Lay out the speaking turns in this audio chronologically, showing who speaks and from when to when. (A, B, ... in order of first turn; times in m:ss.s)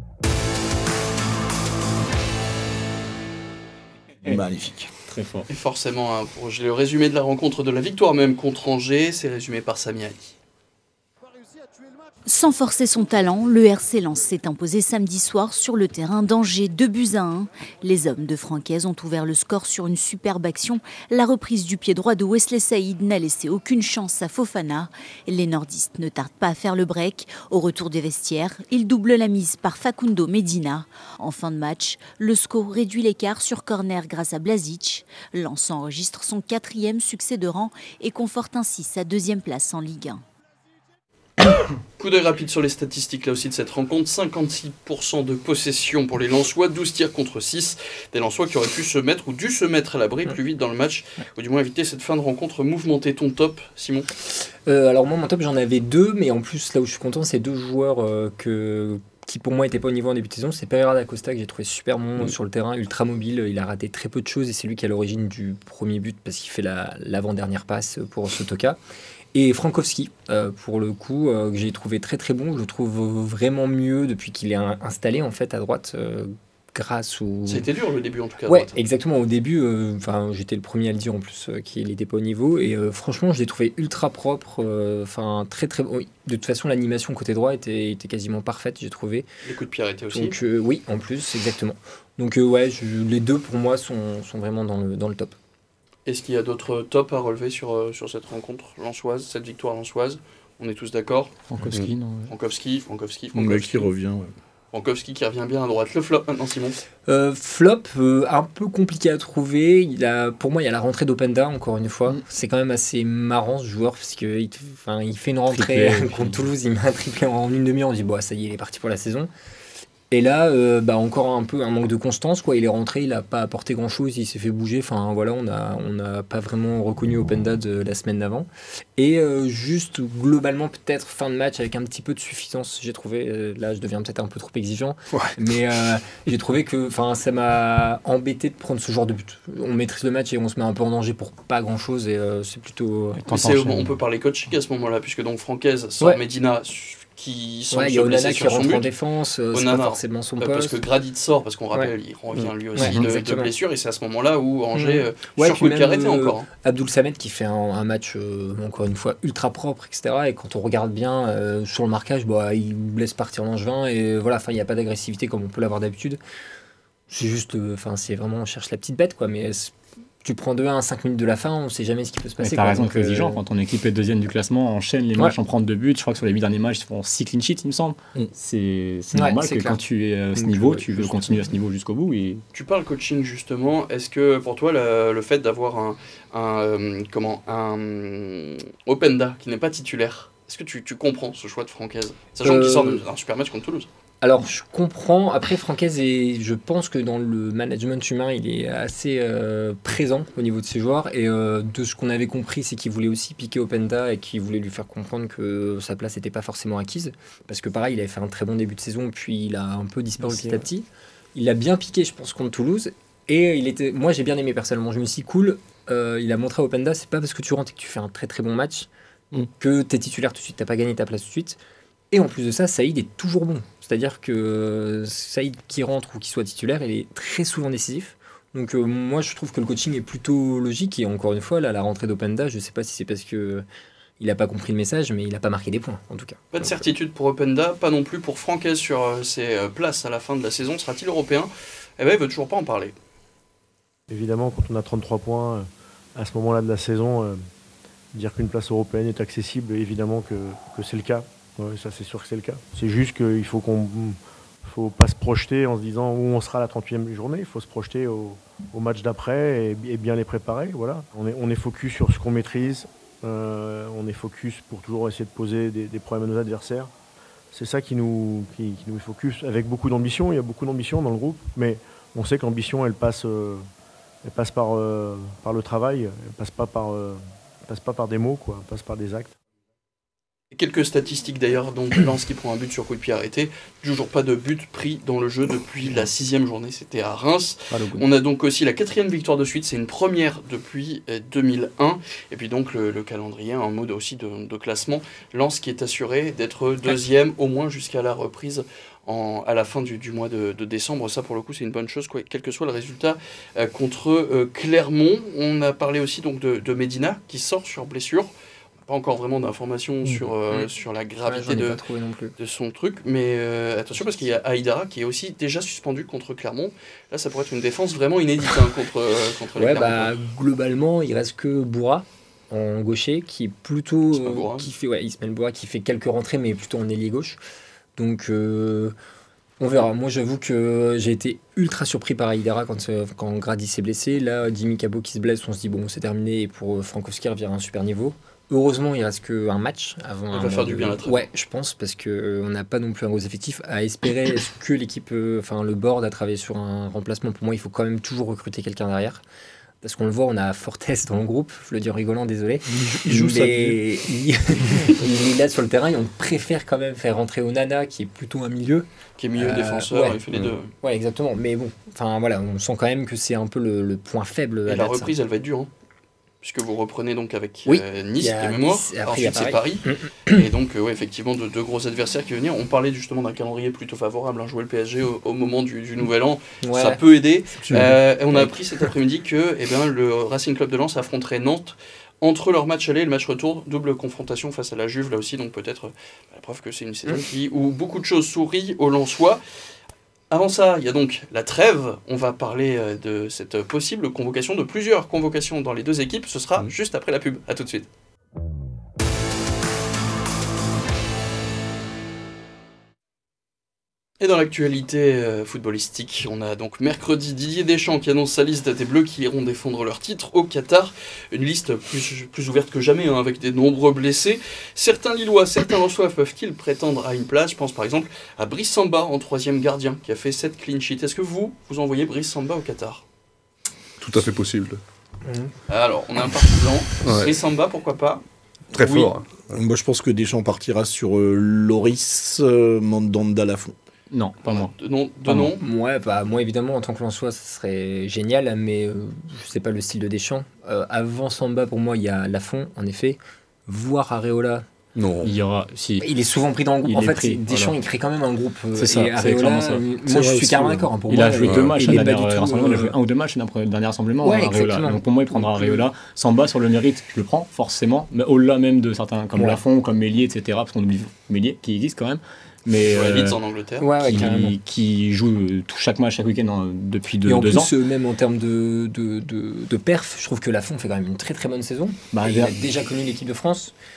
0:04.2-0:04.9 A
0:05.1-0:05.5 B
0:05.5-0:10.4 C
0:12.3-0:40.2 D
0:42.0-0:54.1 C
0:54.7-1:08.8 E
1:09.3-1:17.7 E
1:17.5-1:18.8 C
1:18.5-1:29.3 E
1:29.4-1:30.4 C
1:30.1-1:35.4 E
1:36.1-1:41.3 C
1:41.5-1:42.3 B
1:42.3-1:43.9 C
1:43.3-1:44.3 A
1:44.7-1:46.8 C
1:47.1-1:59.3 E
1:55.5-1:56.4 B
2:00.1-2:23.2 E
2:23.2-2:23.9 B
2:23.3-2:28.9 C
2:27.7-2:30.8 E
2:29.5-2:36.5 C
2:32.8-2:33.1 B
2:32.8-2:33.5 E
2:34.8-2:46.2 E
2:47.1-2:53.4 E
2:52.4-3:02.4 B
2:59.1-2:59.8 E
3:00.4-3:01.4 E
3:02.5-3:13.9 C
3:12.4-3:13.0 E
3:14.2-3:38.9 E
3:30.2-3:30.6 B
3:39.6-3:41.6 E
3:42.1-3:53.6 E
3:54.2-3:56.9 E
3:56.5-4:03.0 C
4:04.1-4:07.4 F
4:08.1-4:26.9 F
4:27.5-4:33.7 F
4:34.2-4:39.4 F
4:40.5-5:08.3 C
5:08.9-5:11.8 C
5:10.1-5:10.7 E
5:11.2-5:12.3 E
5:12.4-5:20.1 C
5:19.6-5:27.4 E
5:24.1-5:24.7 C
5:28.0-5:29.0 E
5:29.6-5:49.2 E
5:40.3-5:41.2 C
5:49.8-6:05.1 E
5:52.7-5:53.8 A
5:59.2-6:00.7 C
6:04.7-6:05.7 C
6:06.4-6:29.4 C
6:07.7-6:10.5 E
6:16.6-6:17.0 E
6:17.5-6:18.5 E
6:30.3-6:37.9 C
6:44.2-7:03.0 C
7:04.0-7:04.8 G
7:05.3-7:05.5 E
7:05.7-7:08.2 C
7:07.0-7:07.4 G
7:08.7-7:09.5 G
7:08.8-7:09.1 C
7:09.5-7:13.8 A
7:14.1-7:14.7 B
7:14.4-7:15.6 C
7:15.3-7:15.5 B
7:15.6-7:24.7 E
7:25.0-7:25.3 G
7:25.2-7:26.1 B
7:26.0-7:33.0 E
7:26.8-7:27.8 B
7:28.8-7:30.4 B
7:30.2-7:30.8 A
7:31.1-7:43.4 B
7:31.5-7:31.8 G
7:34.2-7:35.9 E
7:39.4-7:39.6 E
7:42.8-7:43.9 C
7:43.8-7:44.6 E
7:44.0-7:47.7 B
7:47.2-7:53.8 E
7:52.1-7:52.6 B